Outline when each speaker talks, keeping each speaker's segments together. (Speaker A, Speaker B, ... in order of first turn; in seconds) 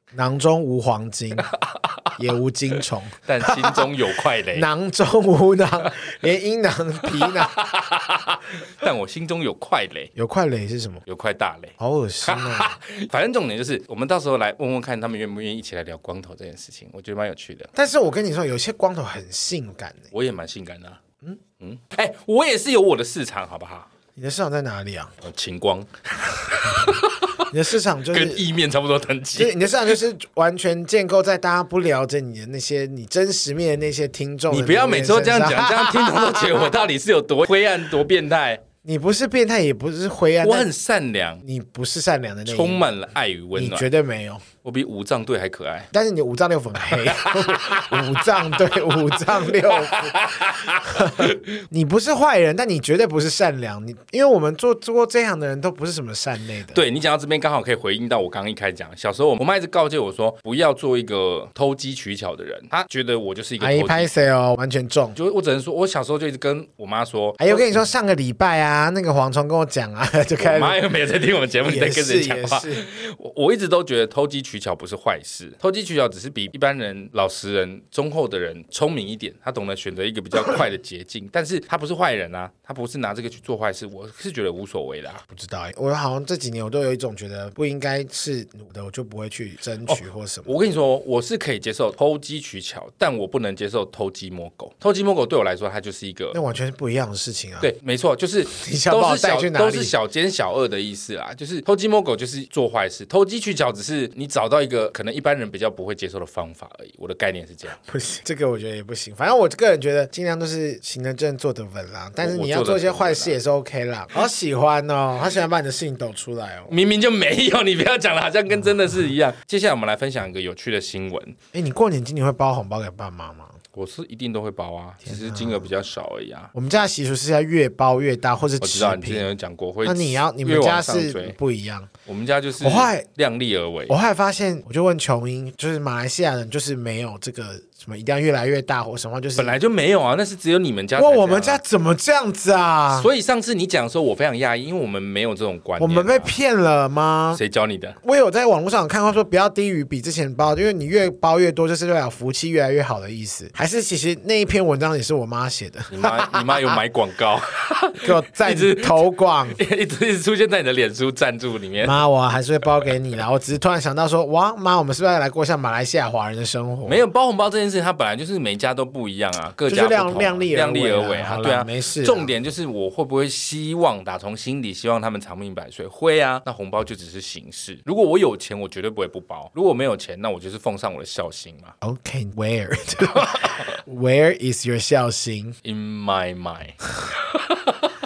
Speaker A: 0.1-1.5, 2.2-3.9, 4.5-7.5, 10.2-11.0, 11.8-12.8, 17.7-20.1, 24.2-25.1, 26.6-28.4, 29.4-36.8, 38.8-40.7, 41.4-42.8, 43.5-44.4, 45.9-56.8, 63.6-65.2, 67.4-70.8, 71.6-72.8, 85.3-90.5, 96.3-97.7, 98.5-99.9, 107.8-116.7, 121.5-123.6, 125.0-125.6, 126.5-129.3, 129.8-131.9, 132.6-133.1, 133.9-139.6, 141.0-143.1, 145.8-147.4, 148.0-156.8, 158.0-159.6, 161.8-167.0, 169.7-172.3, 181.8-185.6
Speaker B: 1.4-2.1, 3.2-4.7, 7.0-10.1, 11.1-17.7, 20.1-21.0, 21.6-23.9, 25.2-27.5, 28.1-29.9, 34.5-38.6, 40.4-41.4, 42.5-43.9, 44.6-45.9, 46.9-48.8, 49.3-51.6, 56.7-64.1, 65.1-67.8, 70.4-85.2, 89.9-96.4, 97.6-107.8, 112.2-113.4, 116.7-121.3, 123.7-126.5, 128.6-131.3, 132.1-133.9, 139.3-141.6, 142.9-146.3, 147.3-148.0, 155.9-162.0, 166.8-181.7, 183.0-183.8, 185.6-187.9